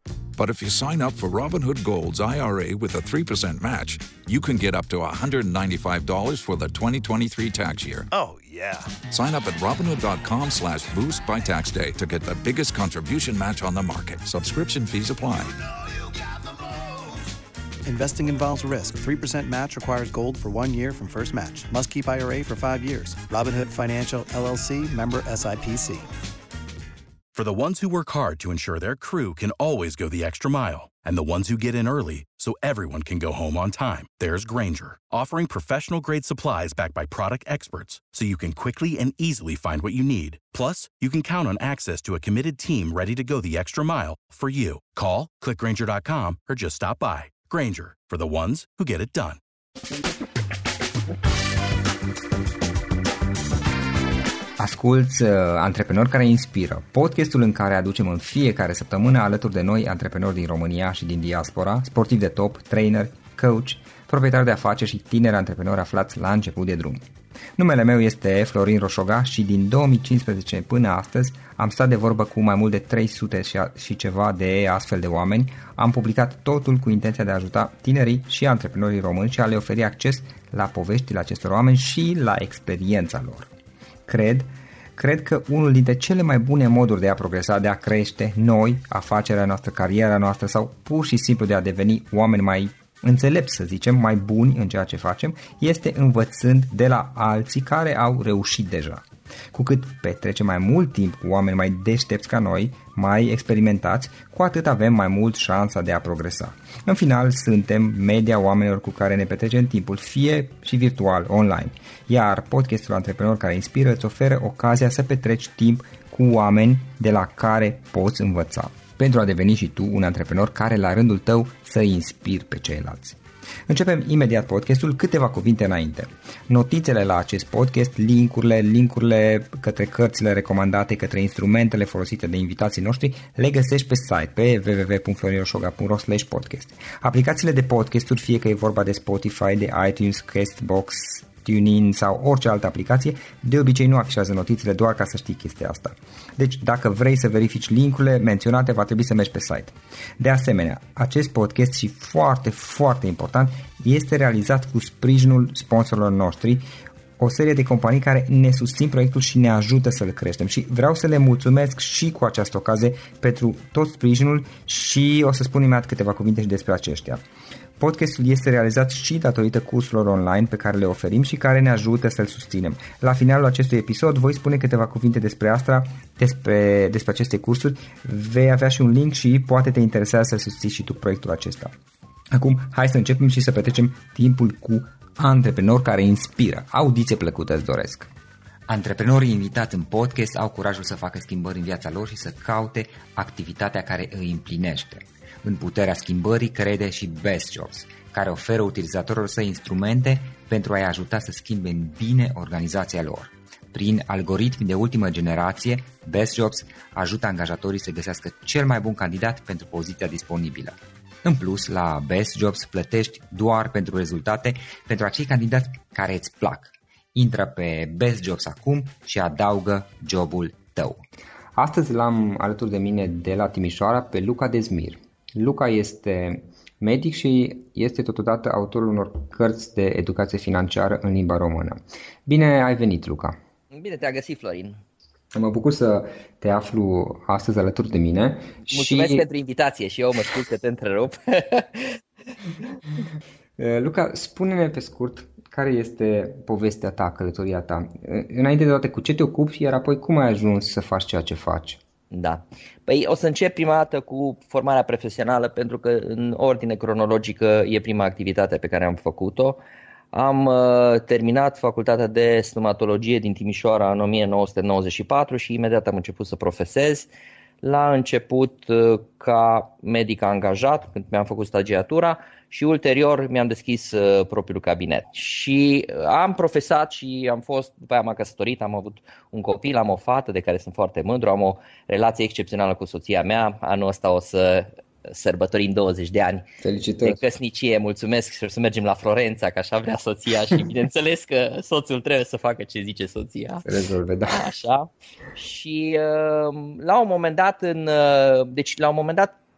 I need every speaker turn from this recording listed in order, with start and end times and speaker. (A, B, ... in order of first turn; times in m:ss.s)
0:00.4-0:08.1 A
0:08.1-0:08.9 B
0:09.1-0:15.6 A
0:17.8-0:26.1 B
0:27.3-0:49.4 C
0:54.6-1:07.0 D
1:07.6-1:23.5 D
1:24.1-2:36.6 D
2:37.2-2:47.2 D
2:47.8-3:01.7 D
3:02.3-3:08.1 D
3:08.7-3:41.0 D
3:41.6-3:53.4 D
3:53.7-3:54.8 E
3:55.3-3:59.2 D
3:58.7-4:02.0 E
4:03.6-4:11.8 D
4:12.1-4:27.1 E
4:27.6-4:46.5 E
4:46.6-4:47.2 D
4:47.0-4:53.7 E
4:53.6-4:54.4 D
4:54.3-4:59.3 E